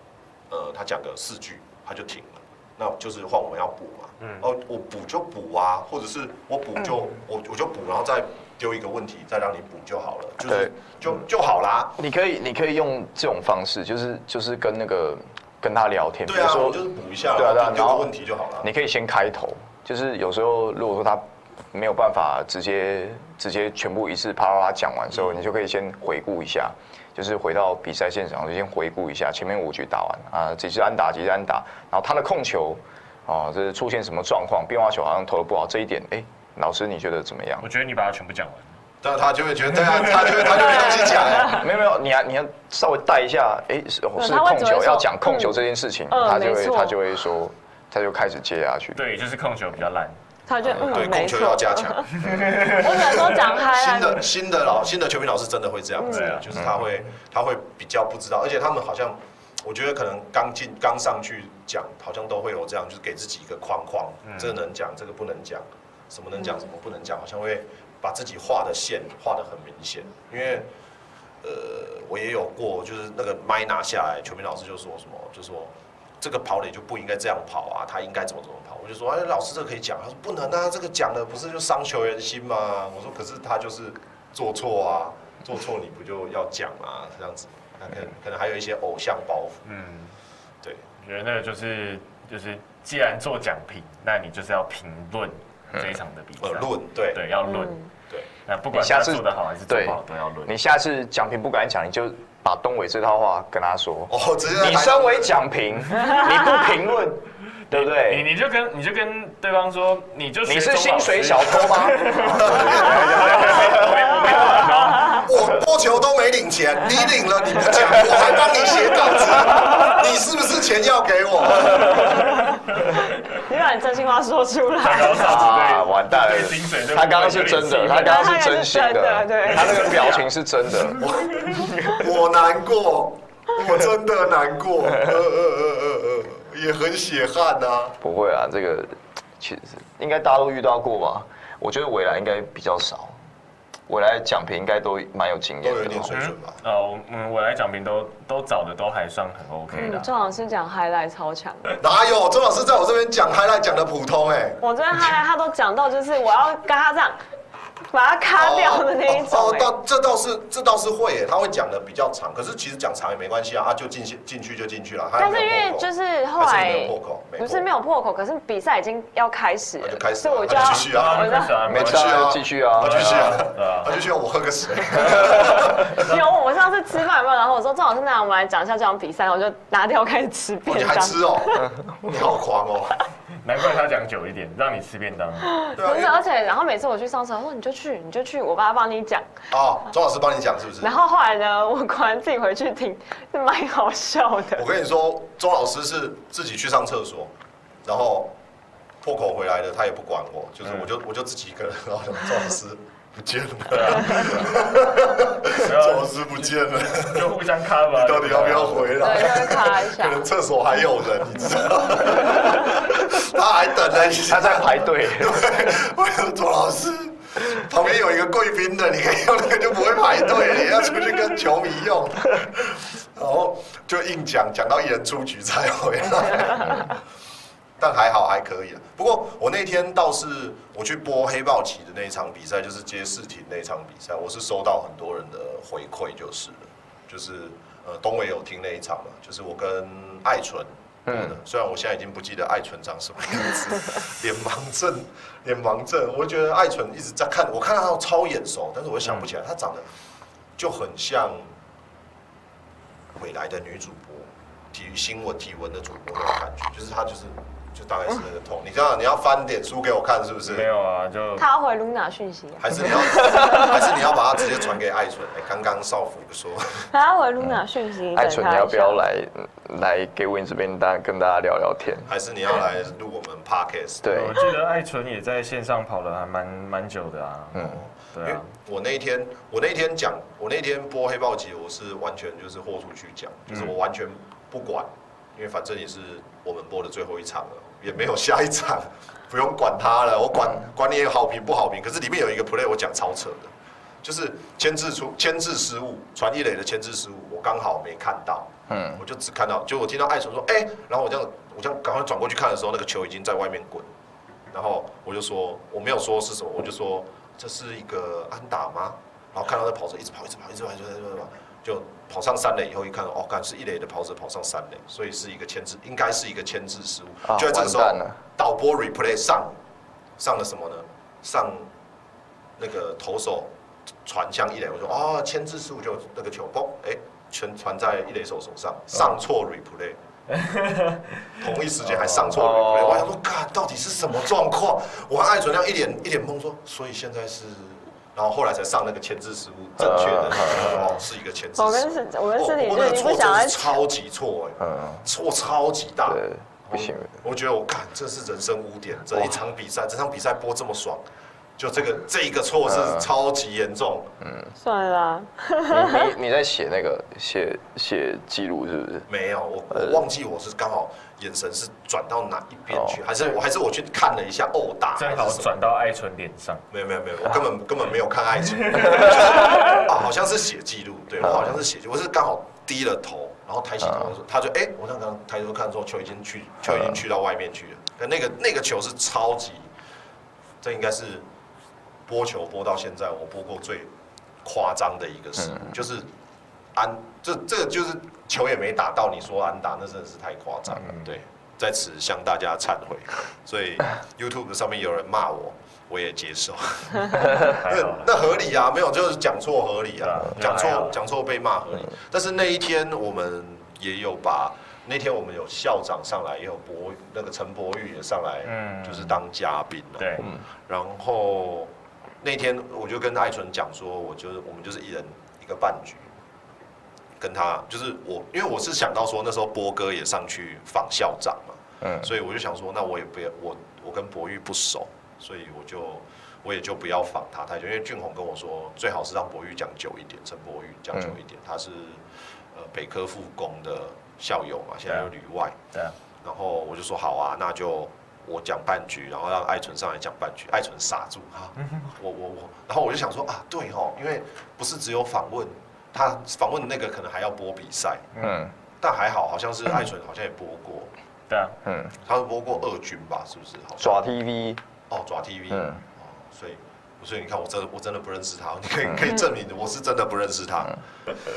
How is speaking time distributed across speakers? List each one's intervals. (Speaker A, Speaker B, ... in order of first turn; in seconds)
Speaker A: 0.5-12.0, 16.3-18.7, 39.0-41.7, 50.7-70.7, 71.4-89.6, 96.4-97.2, 104.1-105.3, 112.2-113.9, 115.0-122.4, 130.9-138.0, 145.6-146.6, 151.8-154.6, 158.3-167.7, 169.8-176.1, 180.7-183.0, 185.8-186.1, 189.5-191.0, 194.5-197.3, 197.8-198.3, 199.0-207.3, 208.0-227.0, 227.8-249.8, 250.6-251.4, 253.1-260.7, 262.6-266.9, 272.1-274.0, 277.6-293.5, 294.0-303.9, 304.5-319.5, 320.2-321.7, 322.6-323.5, 324.1-330.0, 331.4-351.0, 351.6-354.1, 359.1-365.5, 366.7-379.7, 380.6-381.2, 382.1-383.9, 384.4-386.1, 386.8-411.7, 412.2-416.1, 417.2-435.6, 436.2-448.1, 448.8-450.9, 452.0-454.1, 454.9-460.8
Speaker B: 4.2-4.5, 37.6-38.8, 39.9-40.8, 49.0-50.2, 56.0-56.5, 64.2-64.6, 89.7-90.2, 91.0-97.9, 98.5-100.5, 107.7-115.4, 124.8-128.3, 146.1-150.1, 170.5-174.1, 175.0-176.2, 183.4-185.7, 200.6-200.9, 203.7-204.7, 205.5-209.2, 260.5-261.5, 274.1-278.5, 283.5-283.8, 330.3-331.2, 331.9-332.3, 340.5-341.0, 365.0-366.6, 368.7-369.8, 390.8-391.1, 397.4-398.1, 400.0-401.0, 408.4-409.2, 410.0-410.3, 434.9-435.1, 448.1-448.4, 451.3-451.6
Speaker C: 10.4-10.7, 12.0-16.8, 17.3-37.7, 41.4-49.0, 98.7-108.3, 110.5-114.0, 125.2-131.7, 138.0-143.2, 143.9-146.1, 171.7-173.5, 214.0-215.8, 241.1-241.4, 268.1-272.1, 274.0-274.5, 277.6-277.8, 298.7-299.0, 317.3-318.2, 332.3-333.1, 339.8-340.8, 344.6-345.0, 346.1-347.2, 352.7-353.1, 354.2-354.5, 355.7-359.1, 359.7-360.0, 362.7-363.0, 376.7-377.0, 421.8-422.1, 448.2-448.5, 451.6-451.9, 453.8-454.6, 455.5-455.8
Speaker D: 40.6-41.5, 44.2-47.0, 50.5-54.3, 56.0-56.4, 97.5-97.9, 123.3-125.5, 128.0-130.3, 149.8-151.8, 154.6-157.2, 157.9-159.7, 165.2-171.6, 175.8-181.7, 185.5-189.2, 190.8-194.7, 209.0-210.3, 261.4-263.7, 266.9-269.0, 341.6-343.8, 354.6-356.1